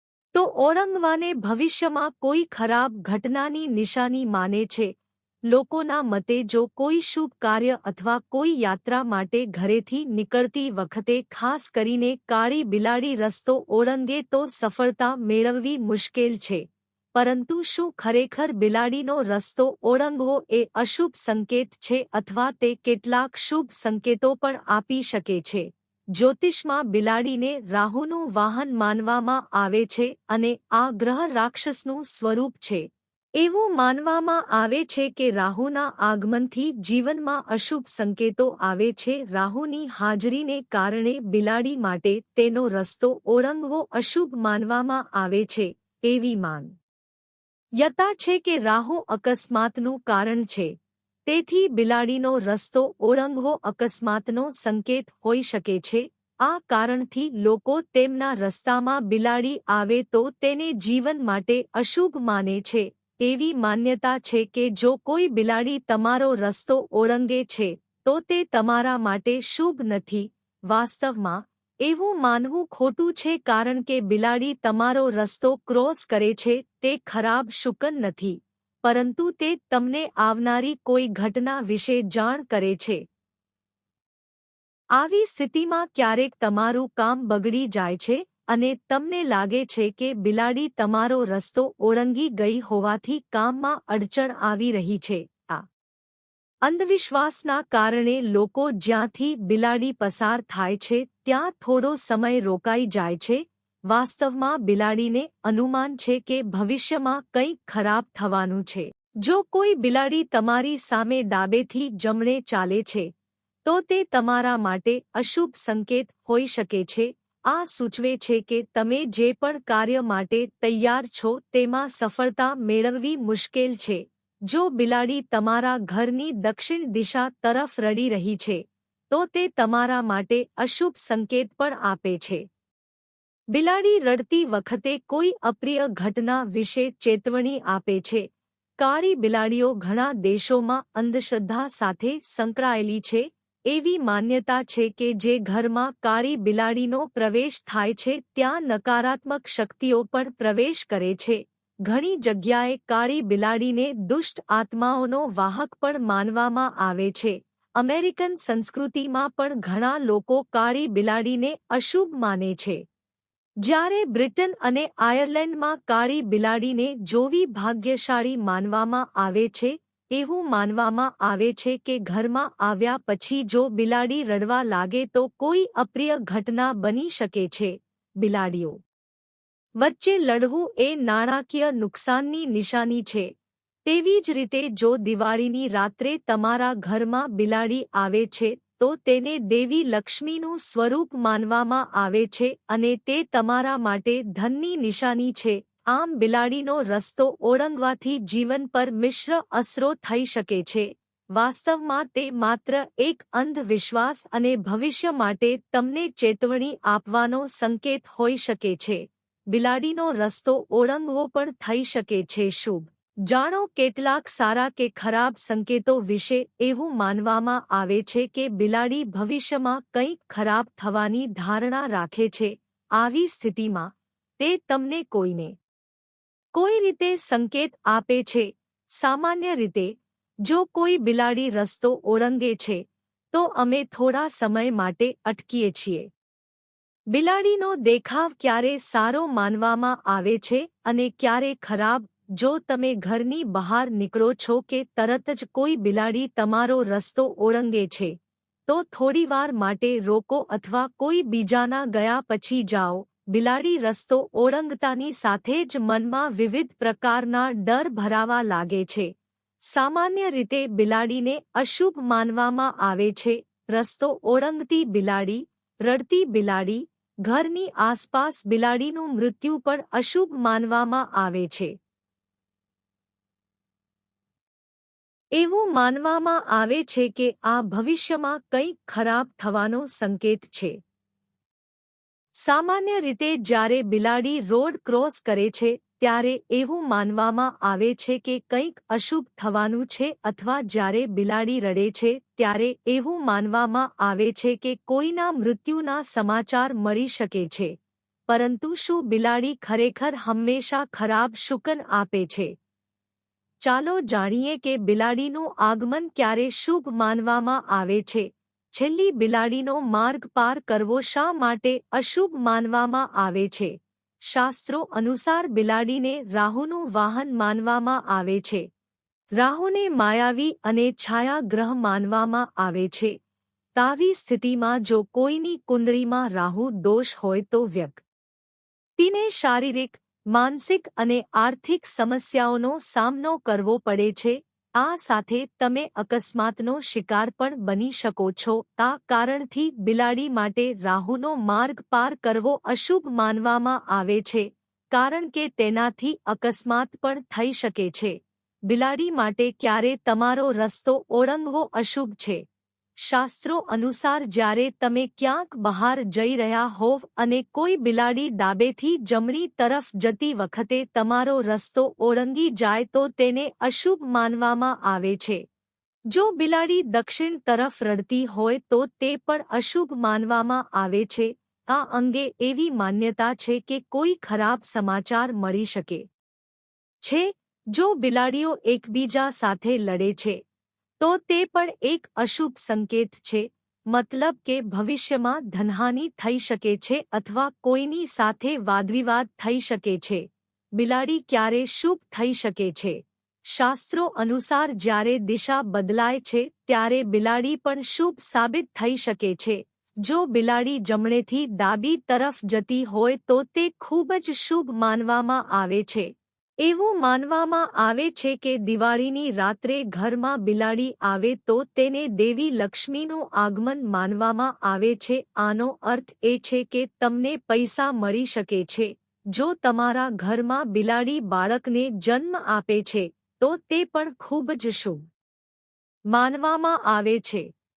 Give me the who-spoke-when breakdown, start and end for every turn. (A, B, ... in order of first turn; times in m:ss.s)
0:00.3-0:04.9 A
0:05.5-0:16.6 A
0:17.1-0:32.9 A
0:33.4-0:46.7 A
0:47.8-0:50.7 A
0:51.2-1:23.0 A
1:25.0-1:35.6 A
1:36.6-1:53.1 A
1:53.6-2:12.4 A
2:13.5-2:18.3 A
2:18.8-2:42.8 A
2:43.6-2:58.8 A
2:59.8-3:03.3 A
3:03.8-3:45.5 A
3:46.5-3:49.9 A
3:50.4-3:56.1 A
3:57.1-4:08.1 A
4:08.7-4:19.1 A
4:19.7-4:31.7 A
4:35.4-4:40.8 A
4:42.4-4:57.7 A
4:58.3-5:02.5 A
5:03.6-5:13.7 A
5:14.3-5:18.7 A
5:19.4-5:23.1 A
5:23.8-5:28.0 A
5:29.0-5:48.2 A
5:48.7-5:52.4 A
5:53.0-6:05.4 A
6:06.1-6:16.0 A
6:17.0-6:20.4 A
6:21.0-6:30.2 A
6:30.8-6:33.0 A
6:33.5-6:46.1 A
6:46.6-7:05.0 A
7:06.1-7:07.5 A